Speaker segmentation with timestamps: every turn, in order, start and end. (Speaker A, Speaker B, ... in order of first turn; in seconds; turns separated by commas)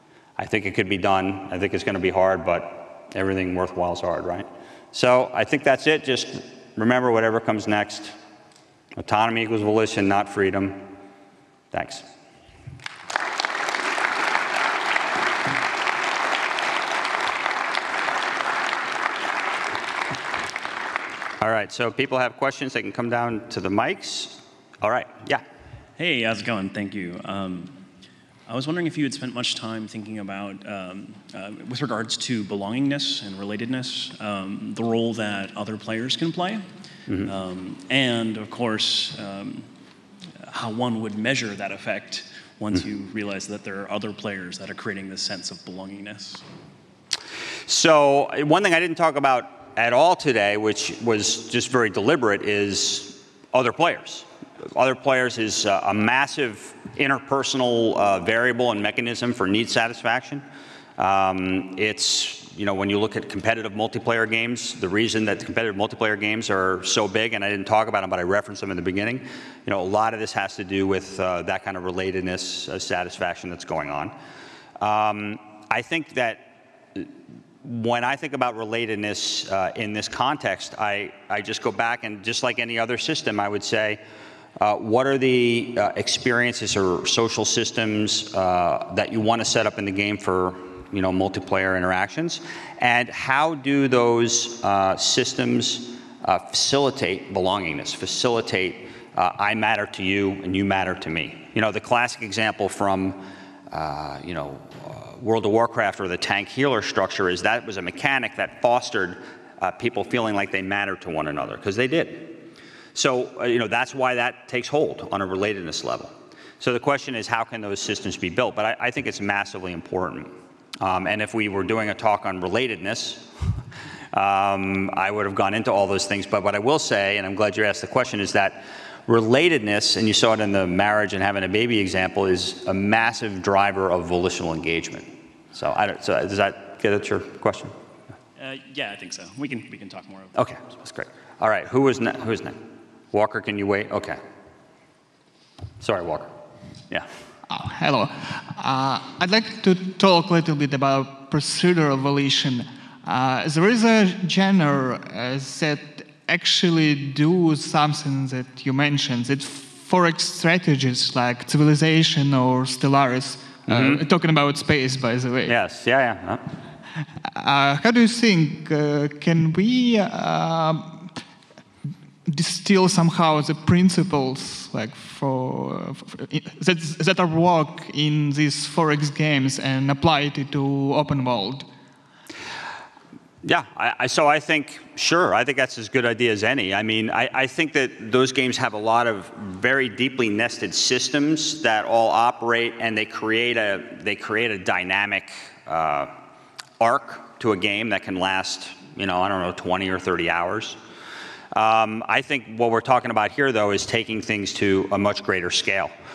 Speaker A: 0.4-8.2, Speaker A: 9.0-10.9, Speaker A: 11.7-12.1, Speaker A: 21.4-25.4, Speaker B: 26.0-27.8, Speaker B: 28.5-36.6, Speaker B: 37.2-39.7, Speaker B: 40.4-46.4, Speaker A: 47.7-60.5, Speaker A: 61.0-74.2, Speaker A: 74.8-77.1, Speaker A: 77.6-84.0, Speaker A: 84.6-112.4, Speaker A: 113.0-123.3, Speaker A: 124.1-137.7, Speaker B: 138.4-140.6, Speaker A: 140.3-144.2, Speaker A: 145.8-146.3, Speaker C: 147.5-165.6, Speaker A: 163.7-164.0, Speaker A: 165.5-166.4, Speaker C: 167.4-171.2, Speaker C: 172.3-181.7, Speaker A: 183.4-196.1, Speaker A: 196.8-200.8, Speaker A: 201.5-205.9